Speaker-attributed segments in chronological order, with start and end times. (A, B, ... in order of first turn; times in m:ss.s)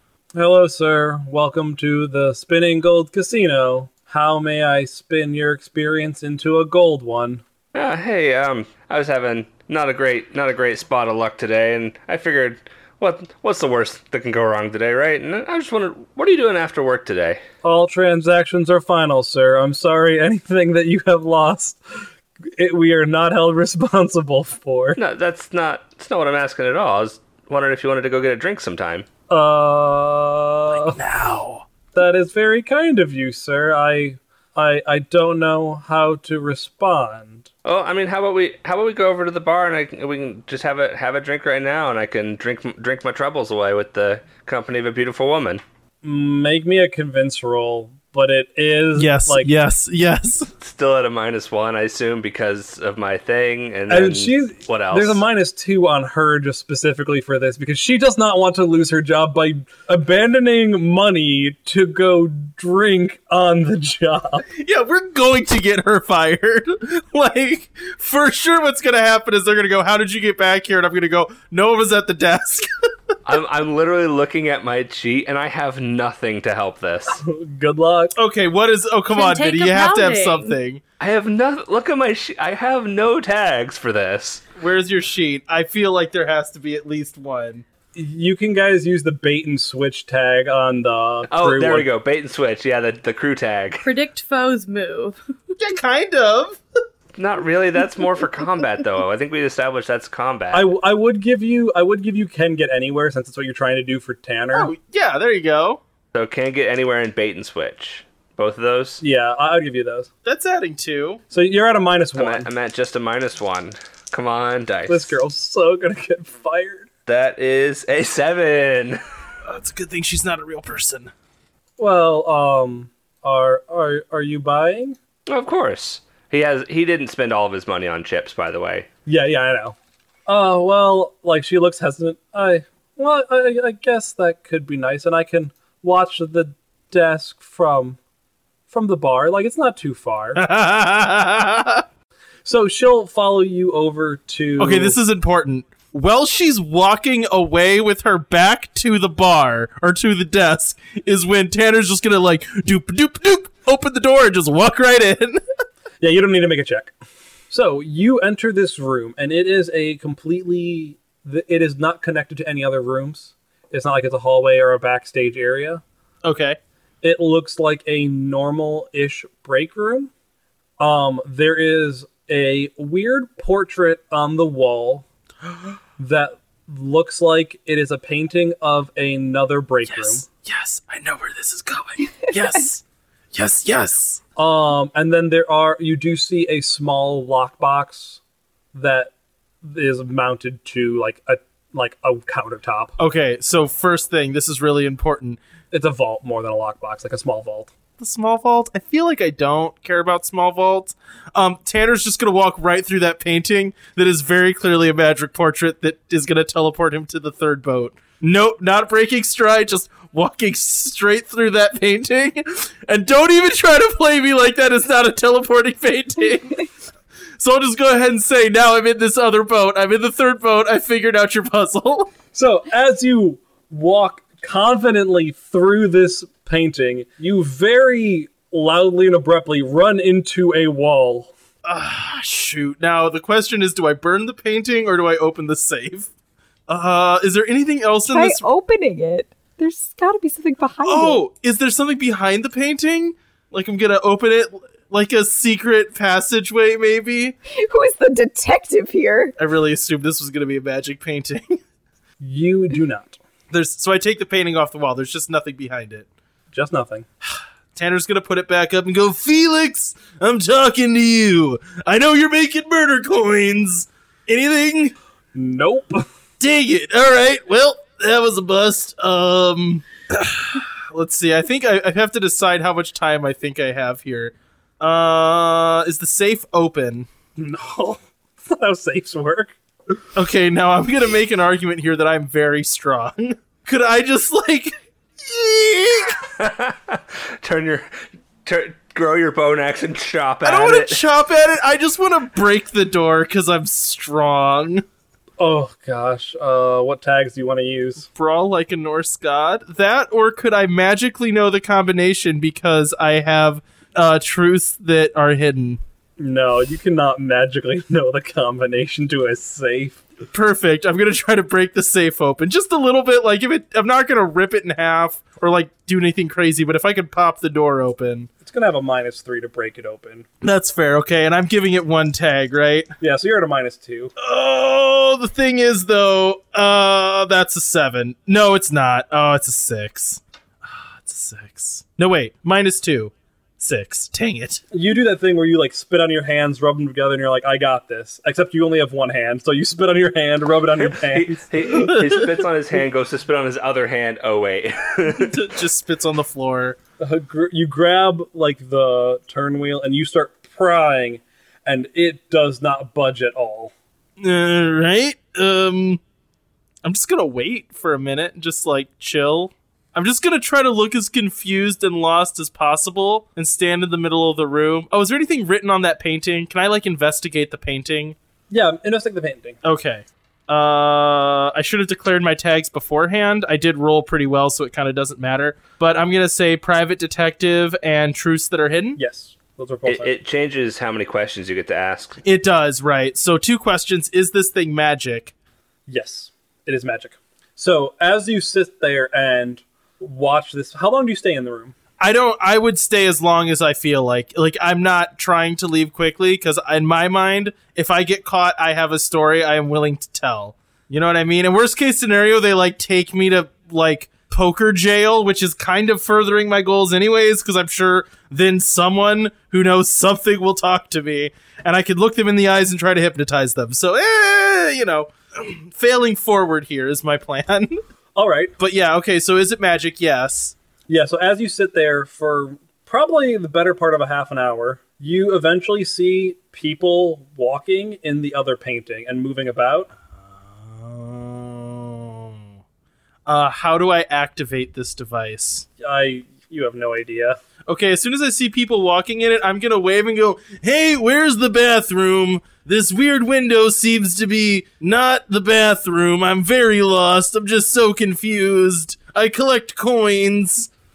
0:00.3-0:07.4 A
0:07.7-0:17.4 B
0:17.6-0:25.0 A
0:25.0-0:29.1 B
0:29.3-0:31.0 A
0:30.9-0:31.7 C
0:31.9-0:37.5 A
0:37.6-0:45.6 B
0:46.0-0:49.5 A
0:49.0-0:50.5 C
0:50.6-0:55.2 B
0:53.9-1:04.5 A
1:04.6-1:12.7 C
1:13.2-1:17.2 B
1:17.1-1:18.1 A
1:18.2-1:20.8 C
1:19.1-1:20.6 D
1:21.0-1:24.4 B
1:24.6-1:27.6 C
1:27.9-1:31.9 A
1:31.3-1:33.9 B
1:33.8-1:35.2 D
1:35.6-1:36.6 C
1:37.2-1:40.7 B
1:40.5-1:44.7 A
1:44.6-1:45.8 C
1:46.1-1:49.0 B
1:49.0-1:50.1 A
1:50.2-1:51.2 C
1:51.3-1:52.5 A
1:52.2-1:55.2 B
1:54.9-1:56.9 A
1:57.1-1:59.0 B
1:59.5-2:01.1 C
2:01.8-2:05.0 A
2:05.3-2:08.9 B
2:09.1-2:18.0 A
2:18.7-2:20.4 A
2:20.4-2:21.8 C
2:22.4-2:25.0 A
2:24.6-2:35.4 C
2:36.0-2:36.9 A
2:37.5-2:45.8 A
2:46.2-2:46.6 C
2:47.0-2:50.1 A
2:50.8-2:55.1 A
2:56.0-3:00.2 A
2:59.9-3:04.2 C
3:04.4-3:08.2 A
3:08.7-3:13.0 A
3:13.0-3:15.4 C
3:15.7-3:17.7 A
3:18.0-3:36.7 C
3:37.4-3:42.1 C
3:42.3-3:51.3 A
3:51.6-3:56.1 C
3:56.7-3:58.5 C
3:58.1-4:01.2 E
4:00.8-4:07.4 C
4:07.5-4:09.4 E
4:09.4-4:11.6 C
4:12.2-4:13.2 A
4:13.5-4:16.1 C
4:16.5-4:17.1 A
4:17.8-4:25.0 C
4:25.3-4:26.1 A
4:26.4-4:37.1 C
4:37.4-4:39.6 A
4:40.2-4:46.2 C
4:46.3-4:47.9 B
4:48.4-4:51.0 B
4:50.4-4:54.8 C
4:55.4-4:58.1 A
4:58.1-5:05.8 C
5:06.2-5:10.0 A
5:10.3-5:18.3 C
5:18.4-5:20.3 A
5:20.4-5:22.9 C
5:23.0-5:24.1 A
5:24.2-5:34.6 C
5:34.7-5:41.4 A
5:40.7-5:45.4 B
5:41.8-5:42.2 C
5:45.1-5:46.8 C
5:47.0-5:53.7 A
5:54.2-5:56.0 C
5:56.8-6:08.2 C
6:08.5-6:09.6 A
6:09.6-6:19.0 C
6:19.0-6:20.2 A
6:19.9-6:22.2 B
6:22.2-6:25.3 C
6:25.9-6:31.8 A
6:32.0-6:57.8 C
6:58.2-6:58.5 A
6:58.6-7:00.6 C
7:00.9-7:09.9 A
7:10.1-7:12.4 C
7:13.3-7:15.7 C
7:15.8-7:17.4 A
7:17.7-7:30.7 C